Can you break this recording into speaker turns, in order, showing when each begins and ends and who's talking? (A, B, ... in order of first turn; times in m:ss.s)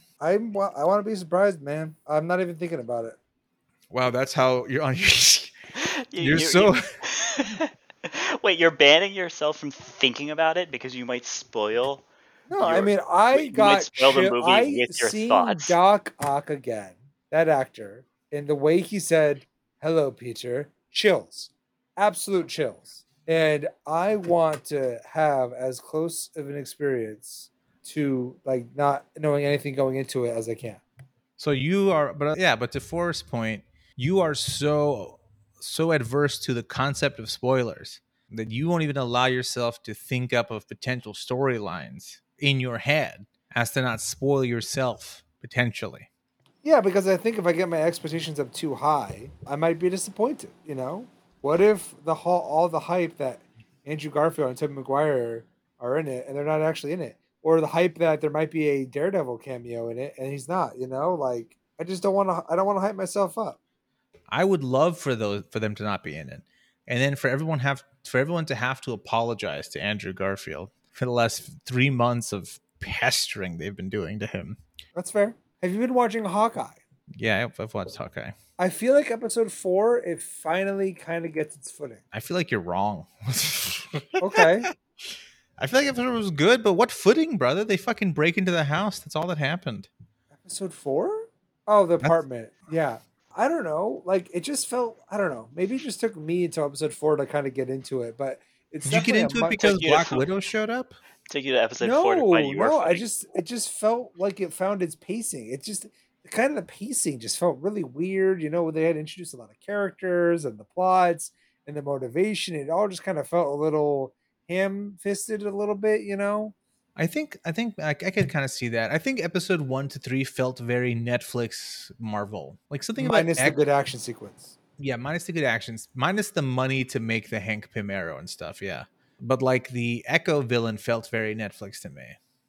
0:00.2-0:03.2 A
0:03.9-0:05.6 B
0:05.8-0:12.0 C
0:06.2-0:06.8 B
0:12.5-0:30.8 A
0:12.6-0:15.8 C
0:31.4-0:46.1 B
0:46.6-1:03.6 A
1:04.3-1:14.6 B
1:15.0-1:16.8 A
1:17.2-1:18.3 B
1:18.6-1:22.0 A
1:22.1-1:24.7 B
1:24.2-1:24.7 A
1:25.6-1:29.9 B
1:30.4-1:39.6 A
1:38.8-1:41.0 B
1:39.6-1:40.2 C
1:41.3-1:43.0 C
1:41.8-1:56.6 A
1:57.0-2:03.6 B
2:03.0-2:04.6 A
2:04.8-2:12.2 B